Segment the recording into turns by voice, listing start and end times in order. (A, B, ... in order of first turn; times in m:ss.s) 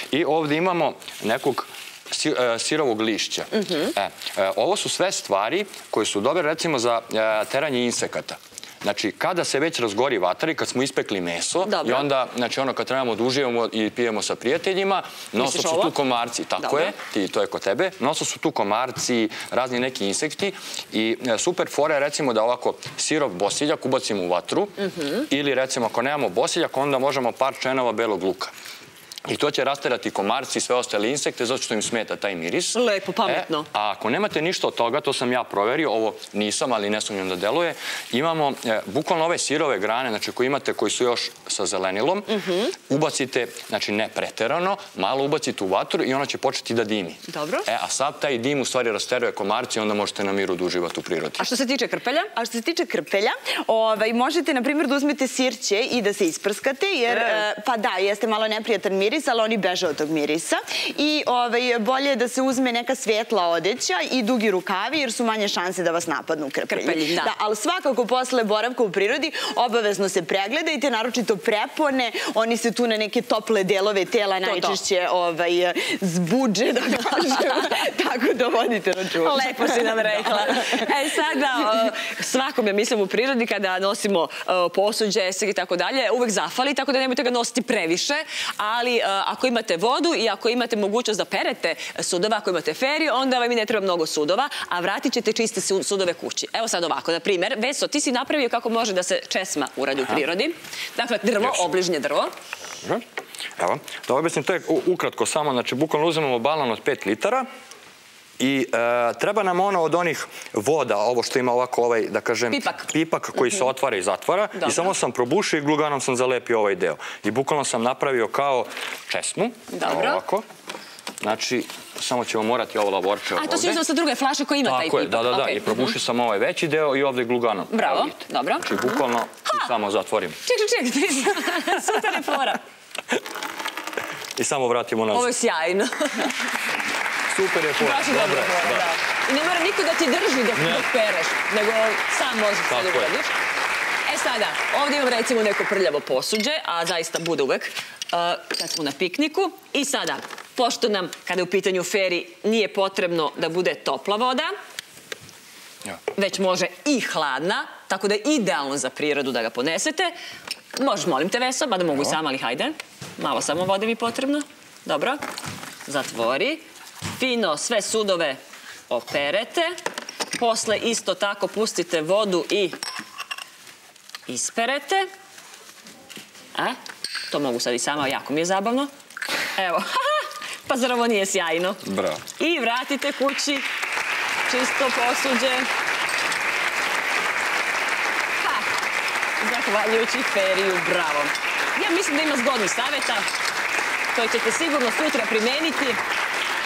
0:00.1-0:28.5 A
0:03.5-0:03.9 B
0:11.6-0:12.1 B
0:15.4-0:15.9 B
0:16.6-0:17.0 B
0:29.3-0:51.4 A
0:32.7-0:33.7 B
0:42.3-0:42.7 B
0:47.3-0:47.7 B
0:51.4-0:52.3 B
0:52.4-1:20.8 C
0:57.1-0:57.4 B
1:06.7-1:07.3 B
1:14.4-1:14.8 B
1:19.2-1:42.3 B
1:43.6-1:47.4 A
1:48.4-2:00.4 A
1:52.5-1:52.9 B
1:54.6-1:54.9 B
1:59.7-2:00.2 B
2:01.2-2:03.8 A
2:03.4-2:05.9 B
2:04.6-2:10.4 A
2:07.7-2:09.7 B
2:10.4-2:12.6 B
2:14.4-2:15.3 A
2:15.1-2:16.4 B
2:17.3-2:18.9 A
2:17.8-2:23.3 B
2:20.5-2:20.9 A
2:22.7-2:23.1 A
2:24.1-2:34.5 B
2:36.1-2:40.1 B
2:40.7-2:45.2 B
2:45.8-2:46.6 B
2:47.2-2:49.7 B
2:50.3-2:52.8 B
2:54.3-2:55.1 B
2:57.3-2:58.9 B
2:59.6-3:01.8 B
3:01.8-3:02.2 A
3:02.4-3:03.7 B
3:04.5-3:05.7 B
3:08.4-3:08.7 B
3:09.4-3:13.3 B
3:14.1-3:16.0 B